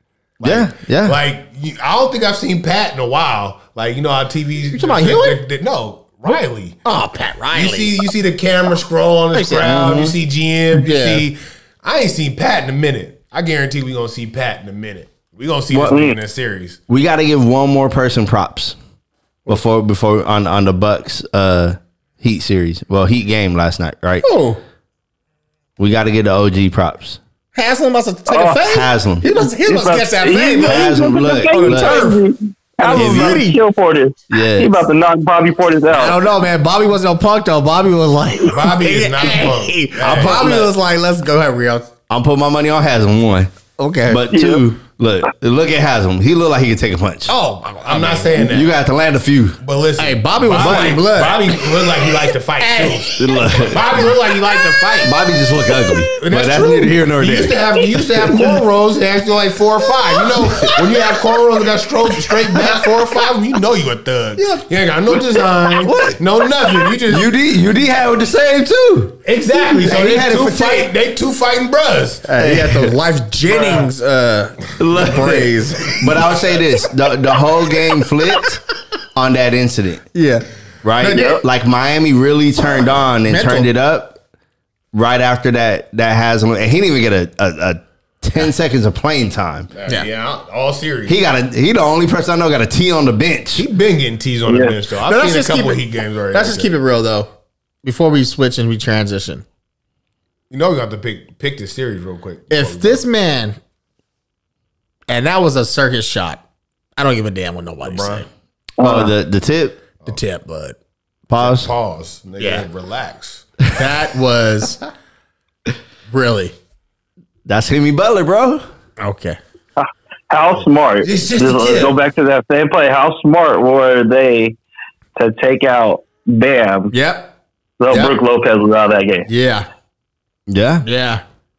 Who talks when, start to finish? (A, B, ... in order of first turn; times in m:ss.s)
0:00.4-0:06.8 A
0:00.4-0:01.2 B
0:04.7-0:05.4 C
0:06.8-0:08.0 C
0:07.5-0:16.8 A
0:09.3-0:10.0 C
0:09.6-0:10.2 B
0:10.7-0:11.3 C
0:15.7-0:16.0 B
0:15.9-0:16.2 D
0:16.9-0:18.8 B
0:19.5-0:24.3 B
0:24.2-0:24.6 C
0:25.8-0:27.2 B
0:27.5-0:32.3 C
0:28.3-0:28.6 D
0:28.6-0:29.2 B
0:29.4-0:36.2 D
0:30.6-0:32.1 B
0:32.8-0:33.6 C
0:32.9-0:33.5 B
0:34.3-0:34.8 B
0:35.9-0:41.9 C
0:38.5-0:40.7 A
0:40.1-0:40.6 B
0:42.1-0:43.5 B
0:43.8-0:44.3 C
0:44.1-0:47.3 B
0:44.3-0:44.6 D
0:47.3-0:48.5 C
0:47.8-0:48.8 A
0:48.4-0:49.6 B
0:49.6-0:55.2 A
0:50.0-0:51.9 C
0:50.5-0:51.0 B
0:52.6-0:53.4 C
0:53.2-0:54.1 B
0:54.6-0:55.0 C
0:55.0-0:57.6 B
0:55.7-0:56.2 C
0:56.2-1:07.3 A
1:00.2-1:01.2 C
1:00.4-1:00.7 B
1:05.7-1:06.2 B
1:07.1-1:10.9 B
1:09.2-1:12.3 A
1:12.3-1:16.3 C
1:12.4-1:12.9 B
1:13.5-1:13.9 A
1:14.8-1:18.6 B
1:19.2-1:20.0 B
1:20.1-1:20.4 C
1:20.8-1:24.2 B
1:21.0-1:21.4 C
1:23.3-1:23.7 C
1:24.9-1:29.7 B
1:29.7-1:31.2 A
1:31.1-1:33.7 B
1:33.6-1:36.7 A
1:34.5-1:34.8 D
1:35.0-1:37.3 C
1:37.8-1:39.4 C
1:40.5-1:43.0 A
1:42.5-1:43.6 C
1:45.1-1:46.4 C
1:47.0-1:48.3 C
1:47.8-1:48.3 A
1:48.8-1:49.1 D
1:48.8-1:49.8 B
1:50.1-1:50.8 C
1:51.3-1:51.7 B
1:51.4-1:53.8 A
1:52.4-1:52.7 C
1:53.7-1:54.8 C
1:56.1-1:56.5 C
1:57.5-1:58.6 B
1:59.0-1:59.4 C
1:59.8-2:04.6 D
2:00.5-2:02.0 A
2:05.2-2:06.9 D
2:06.9-2:07.3 C
2:07.8-2:09.3 D
2:07.9-2:08.2 C
2:09.3-2:09.7 C
2:10.5-2:10.8 B
2:10.8-2:11.2 C